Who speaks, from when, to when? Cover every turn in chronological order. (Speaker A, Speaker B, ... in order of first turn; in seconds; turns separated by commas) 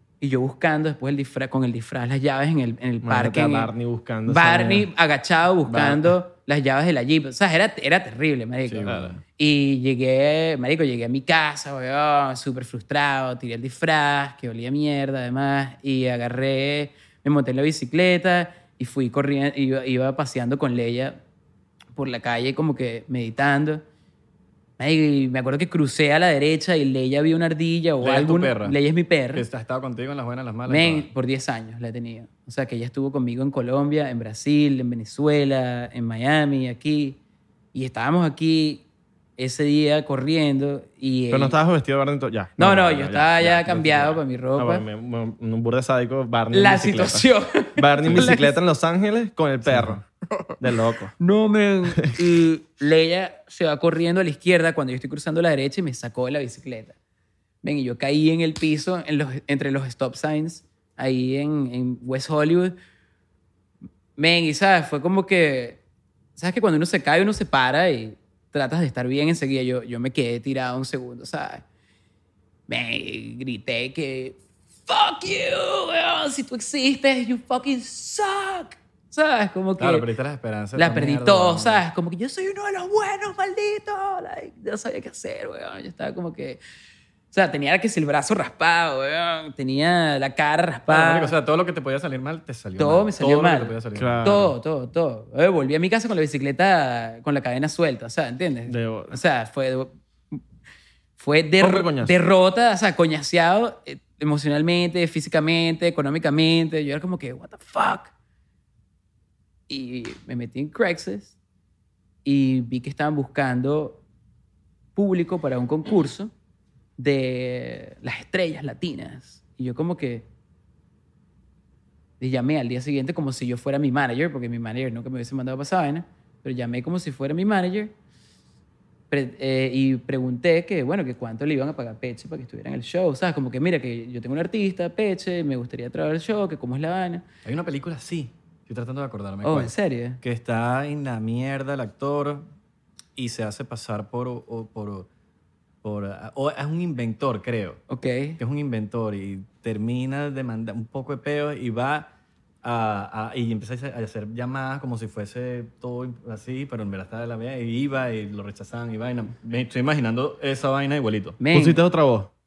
Speaker A: 0.2-3.7, Speaker B: 3.0-4.9, Speaker A: 4.3-21.2, Speaker B: 5.7-6.1, Speaker C: 8.7-9.2, Speaker A: 21.9-23.8, Speaker A: 24.8-29.4, Speaker C: 28.0-28.8, Speaker C: 29.3-31.1, Speaker A: 30.7-37.2, Speaker A: 37.7-38.8, Speaker A: 39.4-41.6, Speaker B: 41.3-50.0, Speaker A: 42.6-44.8, Speaker A: 46.5-48.5, Speaker C: 49.6-50.0, Speaker B: 50.6-51.1, Speaker A: 51.2-56.9, Speaker A: 57.6-62.7, Speaker A: 64.2-65.8, Speaker A: 66.4-71.6, Speaker A: 72.7-80.1, Speaker C: 79.8-81.8, Speaker A: 80.8-86.6, Speaker A: 87.3-91.3, Speaker C: 90.9-94.3, Speaker A: 92.8-100.4, Speaker B: 94.0-94.5, Speaker B: 98.7-99.2, Speaker A: 101.2-108.1, Speaker B: 101.6-102.1, Speaker A: 109.7-111.3, Speaker A: 112.2-114.0, Speaker A: 115.0-116.3, Speaker A: 117.0-120.2, Speaker A: 122.2-127.9, Speaker A: 129.1-137.2, Speaker C: 137.4-142.5, Speaker A: 139.4-140.2, Speaker C: 143.2-145.1, Speaker C: 145.8-147.8, Speaker A: 147.9-148.4, Speaker C: 148.4-152.1, Speaker C: 152.6-161.4, Speaker A: 161.4-161.8, Speaker B: 161.5-162.3